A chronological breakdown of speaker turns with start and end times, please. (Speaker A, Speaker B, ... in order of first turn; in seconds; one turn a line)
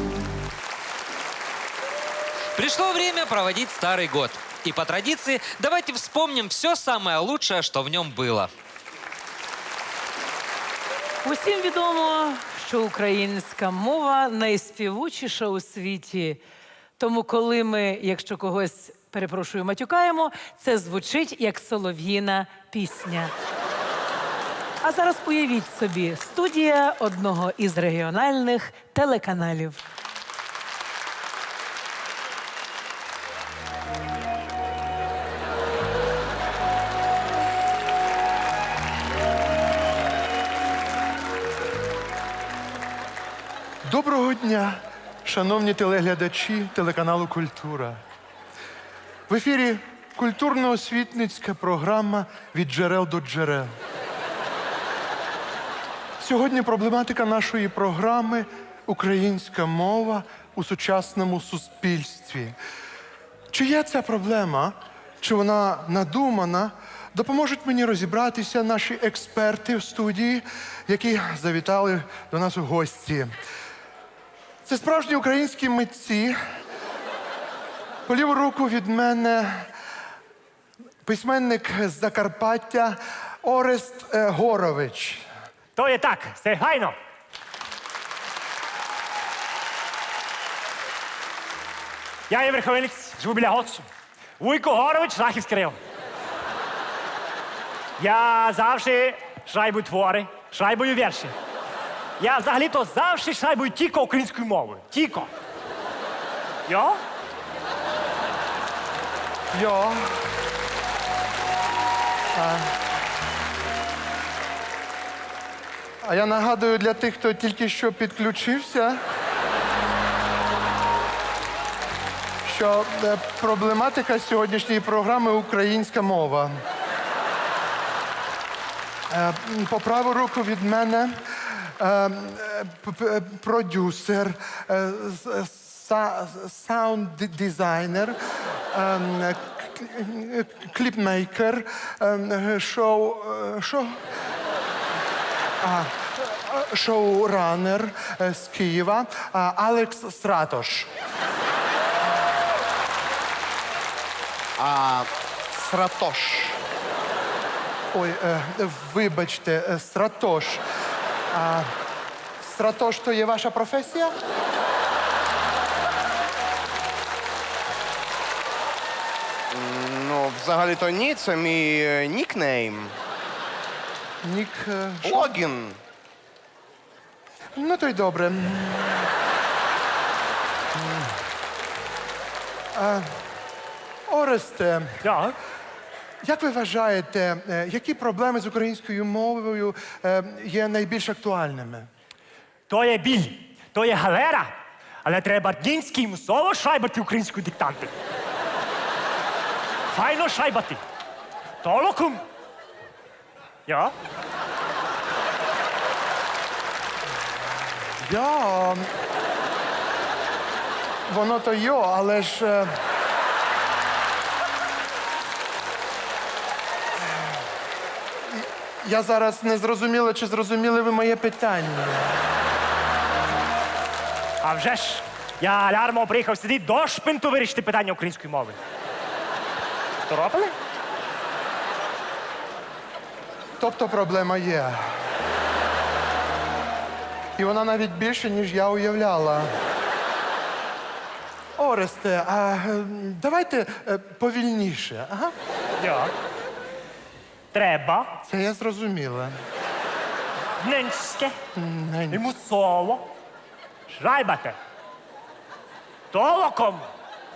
Speaker A: 2.5-8.5
Speaker B: 11.2-16.4
Speaker B: 17.0-23.3
Speaker B: 24.8-29.8
Speaker C: 43.8-48.0
Speaker C: 49.3-53.7
Speaker C: 56.2-62.5
Speaker C: 63.5-73.3
Speaker C: 74.6-76.4
Speaker C: 78.1-79.7
Speaker C: 81.0-85.2
Speaker D: 85.7-86.9
Speaker D: 92.3-93.9
Speaker D: 94.4-95.8
Speaker D: 98.0-101.3
Speaker D: 102.2-105.3
Speaker D: 106.7-107.0
Speaker C: 109.5-110.0
Speaker C: 112.3-112.7
Speaker C: 116.0-119.0
Speaker C: 122.4-126.6
Speaker C: 129.1-138.2
Speaker C: 138.7-144.0
Speaker C: 145.6-150.9
Speaker E: 154.6-156.6
Speaker C: 157.9-160.6
Speaker C: 161.3-161.7
Speaker C: 162.4-164.1
Speaker E: 169.5-172.9
Speaker C: 174.2-175.4
Speaker E: 175.0-175.8
Speaker C: 177.6-179.1
Speaker C: 182.7-183.2
Speaker C: 184.1-185.0
Speaker D: 185.0-185.4
Speaker C: 186.2-191.9
Speaker D: 192.7-194.5
Speaker D: 195.0-197.9
Speaker D: 199.9-200.8
Speaker D: 201.6-202.2
Speaker D: 203.7-203.9
Speaker C: 208.0-208.8
Speaker C: 211.1-212.7
Speaker C: 218.3-222.2
Speaker D: 224.4-228.6
Speaker D: 230.0-230.5
Speaker C: 233.6-234.8
Speaker C: 237.4-239.5
Speaker C: 241.6-245.3
Speaker D: 245.8-246.1
Speaker D: 247.5-248.1
Speaker C: 248.2-249.4
Speaker D: 250.6-251.3
Speaker C: 251.5-252.2
Speaker D: 252.1-253.1
Speaker D: 253.9-254.6
Speaker D: 256.1-256.9